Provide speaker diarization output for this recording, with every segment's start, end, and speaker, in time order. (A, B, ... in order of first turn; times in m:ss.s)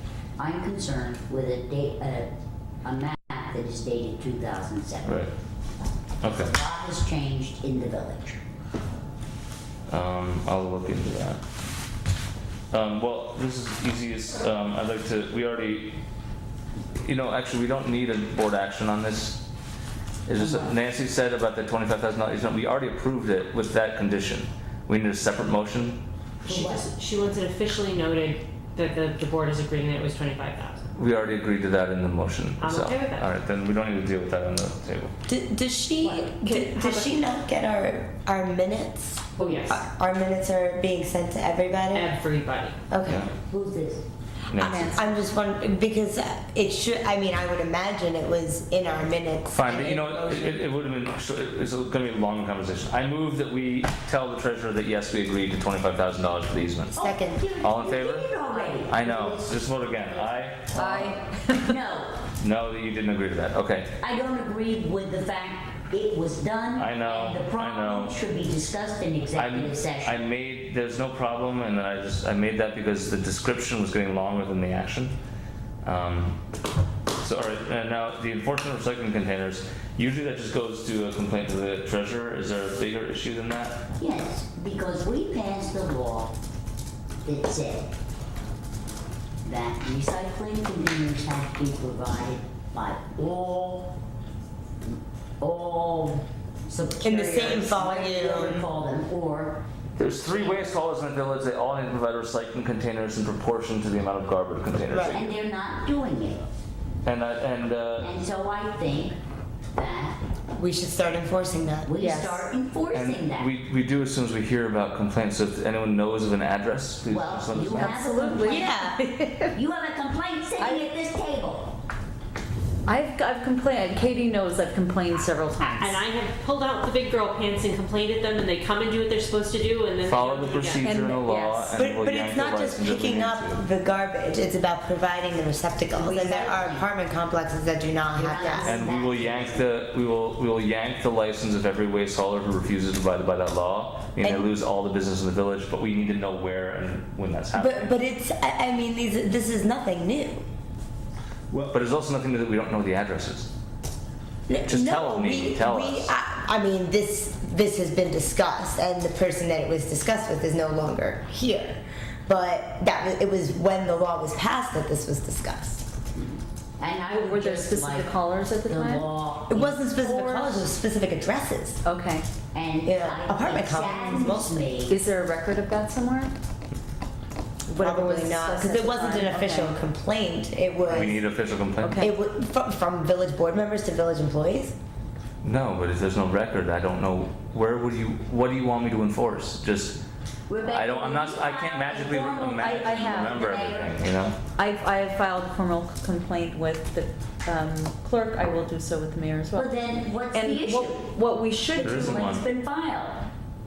0:00.4-0:02.3 A
0:02.8-0:05.3 A
0:05.0-0:05.3 B
0:06.2-0:06.5 B
0:06.2-0:08.4 A
0:09.9-0:11.4 B
0:12.7-0:16.0 B
0:17.0-0:19.4 B
0:20.3-0:26.0 B
0:20.4-0:20.7 A
0:26.4-0:30.9 C
0:26.4-0:26.9 A
0:31.0-0:35.1 B
0:32.6-0:33.3 C
0:35.3-0:42.1 D
0:36.0-0:37.1 C
0:39.4-0:39.8 C
0:41.9-0:42.8 C
0:42.9-0:43.3 D
0:43.0-0:43.3 B
0:43.5-0:44.0 A
0:44.5-0:45.0 B
0:44.6-0:50.7 D
0:44.6-0:45.1 E
0:49.5-0:57.0 B
0:57.0-0:57.4 D
0:57.0-1:01.1 A
0:57.6-1:01.0 B
1:00.7-1:01.8 E
1:01.6-1:02.2 A
1:02.4-1:04.0 B
1:04.0-1:10.3 A
1:06.8-1:08.2 B
1:09.3-1:15.2 B
1:15.8-1:16.4 B
1:17.2-1:23.8 B
1:24.0-1:26.4 A
1:27.2-1:27.9 A
1:29.4-1:33.9 A
1:35.4-1:39.6 A
1:37.0-1:38.7 D
1:40.0-1:45.3 B
1:40.2-1:40.7 A
1:44.9-1:45.2 D
1:45.1-1:46.5 A
1:47.0-1:48.2 B
1:48.0-1:49.2 A
1:49.7-1:50.2 A
1:50.6-1:51.9 D
1:51.8-1:53.5 A
1:51.9-1:52.5 E
1:52.9-1:58.0 B
1:57.1-1:58.7 A
1:57.8-1:59.5 E
1:58.4-1:59.0 D
1:59.5-2:01.8 A
2:00.6-2:00.9 E
2:02.9-2:06.0 E
2:05.8-2:10.9 C
2:10.0-2:13.6 B
2:10.8-2:11.8 E
2:11.8-2:18.8 D
2:15.9-2:16.9 A
2:18.1-2:19.7 A
2:18.7-2:27.9 B
2:24.2-2:24.5 D
2:27.6-2:30.4 D
2:31.5-2:33.5 B
2:34.5-2:45.8 D
2:34.7-2:36.1 B
2:46.2-2:50.0 A
2:47.2-2:49.1 E
2:49.5-2:51.8 D
2:50.0-2:50.7 E
2:51.8-2:52.3 E
2:52.5-2:55.0 A
2:52.8-2:54.7 D
2:54.9-2:56.3 E
2:57.7-3:01.2 D
2:57.8-2:59.8 E
3:00.9-3:02.0 B
3:01.8-3:02.2 E
3:02.0-3:04.8 D
3:05.4-3:10.0 B
3:10.5-3:14.1 A
3:10.7-3:14.4 B
3:12.5-3:13.4 E
3:14.6-3:22.4 E
3:19.6-3:21.2 A
3:21.7-3:23.3 A
3:21.8-3:22.4 B